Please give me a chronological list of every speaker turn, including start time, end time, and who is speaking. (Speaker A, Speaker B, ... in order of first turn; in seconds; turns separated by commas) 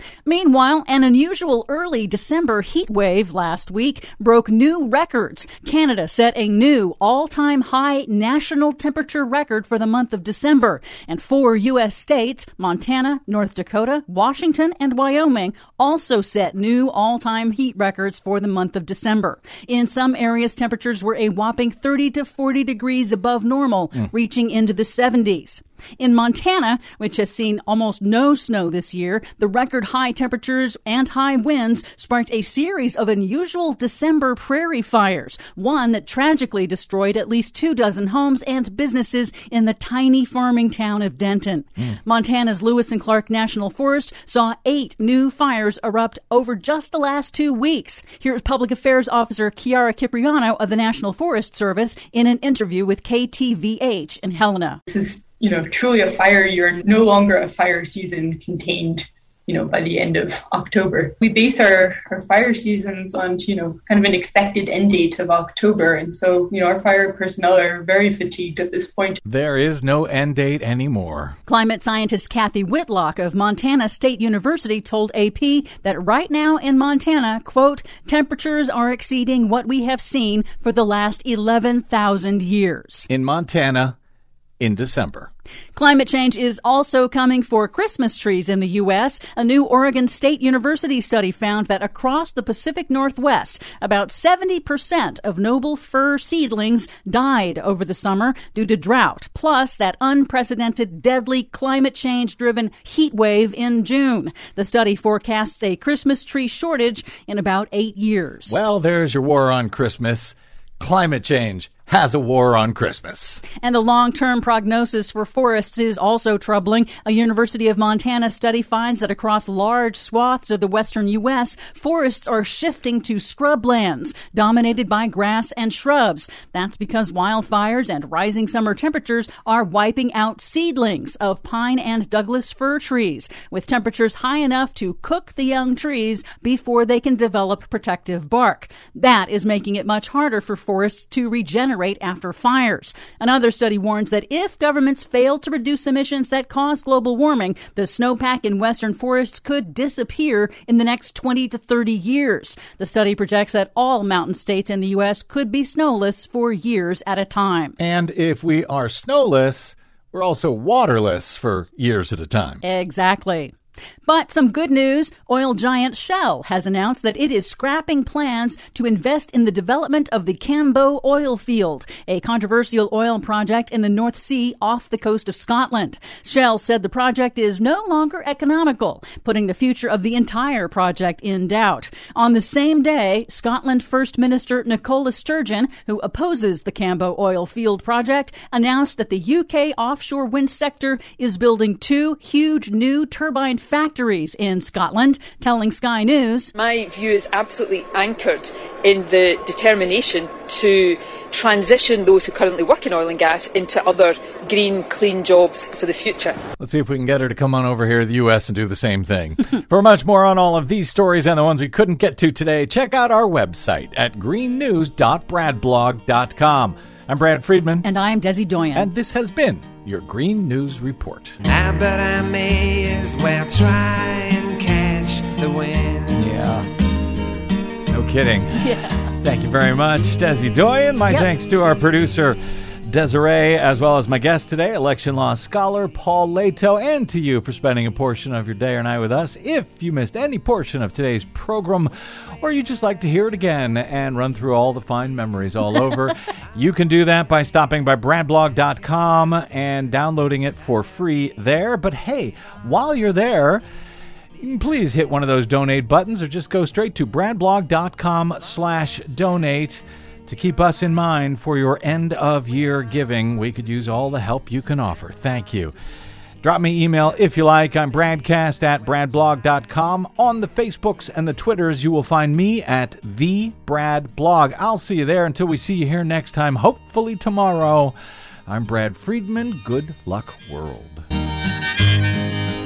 Speaker A: 0.3-54.8, Speaker B: 54.9-69.2, Speaker C: 69.2-71.4, Speaker A: 71.5-83.1, Speaker C: 83.1-84.0, Speaker C: 84.6-85.3, Speaker A: 85.8-108.6, Speaker C: 108.5-113.4, Speaker A: 113.6-157.8, Speaker C: 157.8-162.6, Speaker A: 162.6-163.5, Speaker A: 164.1-196.5, Speaker D: 196.6-206.4, Speaker C: 206.6-217.9, Speaker A: 217.8-218.9, Speaker C: 218.7-221.4, Speaker E: 221.5-225.8, Speaker C: 226.1-226.7, Speaker C: 227.9-253.6, Speaker A: 228.6-229.1, Speaker C: 254.4-265.7, Speaker C: 266.4-277.9, Speaker C: 278.5-281.1